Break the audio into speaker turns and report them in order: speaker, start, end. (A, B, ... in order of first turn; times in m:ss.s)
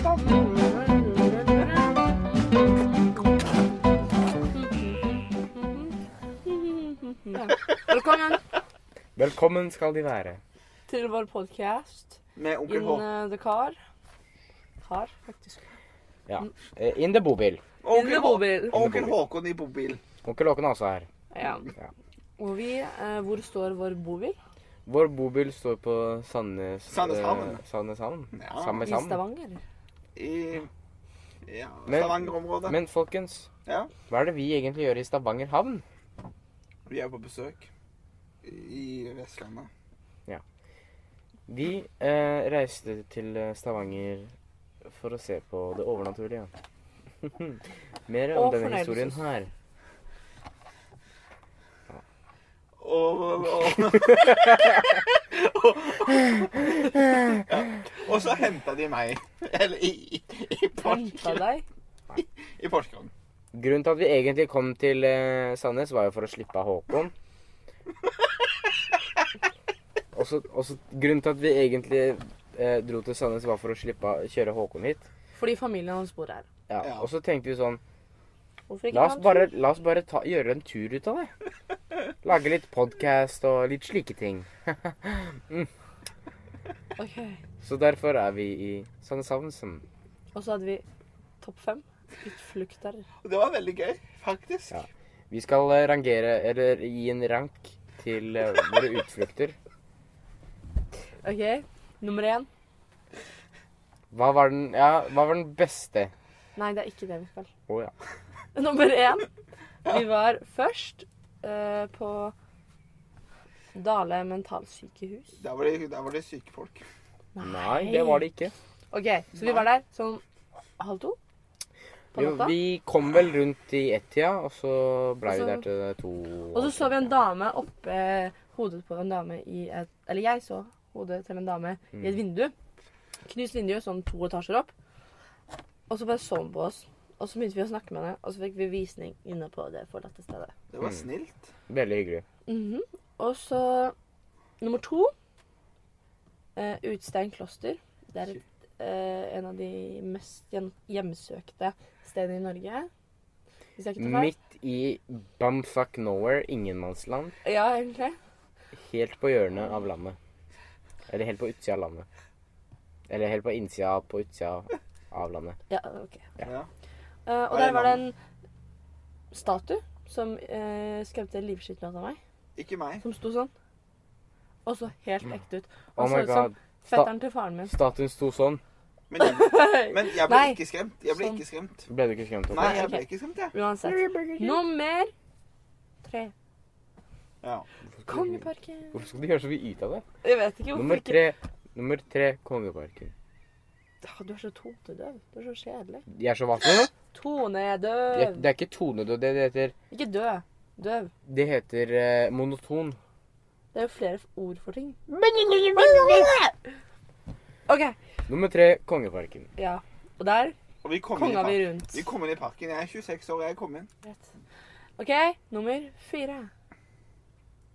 0:00.2-0:01.8 A
0:04.5-0:05.0 A
0:05.6-0:05.9 A
0:06.4-0:08.4 A
0:09.2-0:10.4 B
0:10.9-0:13.8 A
0:12.4-0:13.1 C
0:14.8-0:15.6 A
0:16.3-0:17.6 B
0:17.8-0:20.0 C
0:17.9-0:18.8 A
0:18.7-0:19.2 B
0:20.2-0:21.1 B
0:21.3-0:21.7 A
0:22.4-0:24.4 A
0:24.9-0:29.2 B
0:26.9-0:27.6 C
0:28.3-0:28.9 C
0:28.8-0:29.6 A
0:30.2-0:30.7 C
0:31.5-0:32.8 C
0:31.9-0:33.5 B
0:33.7-0:33.9 C
0:34.1-0:35.8 B
0:36.9-0:37.7 C
0:38.4-0:39.7 C
0:41.5-0:46.5 B
0:47.2-0:49.5 B
0:48.3-0:49.2 A
0:52.8-1:01.4 C
1:00.8-1:01.6 A
1:02.2-1:03.1 C
1:03.5-1:07.1 B
1:10.1-1:15.1 B
1:15.4-1:16.5 A
1:16.7-1:17.8 B
1:16.8-1:17.1 C
1:18.7-1:19.5 A
1:18.9-1:21.3 B
1:22.2-1:25.7 B
1:27.0-1:27.4 A
1:27.6-1:29.8 B
1:30.3-1:30.8 A
1:31.4-1:33.1 A
1:33.2-1:34.8 C
1:34.7-1:39.6 B
1:41.2-1:42.5 A
1:44.1-1:46.1 B
1:46.6-1:47.5 A
1:47.7-1:47.9 B
1:48.6-1:49.3 A
1:49.9-1:52.3 A
1:53.7-1:55.4 A
1:55.4-1:56.8 C
1:57.4-1:58.3 A
1:57.4-1:58.5 B
1:58.9-2:00.2 A
2:00.8-2:01.2 A
2:02.1-2:02.6 A
2:02.2-2:07.1 B
2:05.2-2:05.6 A
2:06.5-2:12.5 A
2:13.3-2:14.7 A
2:15.9-2:20.5 A
2:20.7-2:21.5 C
2:21.7-2:22.2 B
2:22.5-2:23.9 A
2:24.6-2:25.1 A
2:26.6-2:32.9 A
2:33.8-2:34.3 A
2:34.0-2:37.4 B
2:37.4-2:38.2 A
2:38.9-2:40.2 B
2:41.1-2:42.1 B
2:43.1-2:45.6 B
2:45.7-2:46.3 A
2:46.4-2:46.7 C
2:47.3-2:48.2 A
2:47.5-2:48.0 C
2:49.3-2:52.2 A
2:52.6-2:53.0 C
2:53.0-2:53.5 A
2:54.6-2:57.7 A
2:56.0-2:57.1 B
2:57.7-2:58.6 B
2:59.1-3:01.9 C
2:59.2-3:01.4 A
3:01.9-3:02.9 B
3:02.5-3:03.6 C
3:02.5-3:05.1 A
3:03.8-3:04.6 B
3:06.0-3:06.3 A
3:07.4-3:07.7 C
3:08.0-3:10.0 B
3:08.1-3:09.0 A
3:10.2-3:11.3 A
3:10.7-3:13.1 B
3:14.0-3:16.0 A
3:16.1-3:16.9 B
3:17.1-3:18.5 A
3:18.1-3:19.7 B
3:19.9-3:21.1 A
3:21.3-3:23.0 B
3:23.7-3:25.0 A
3:25.1-3:26.5 B
3:25.8-3:26.2 A
3:27.7-3:28.0 A
3:28.3-3:29.5 B
3:29.6-3:30.6 A
3:30.8-3:33.9 C
3:31.2-3:32.1 A
3:35.0-3:36.5 A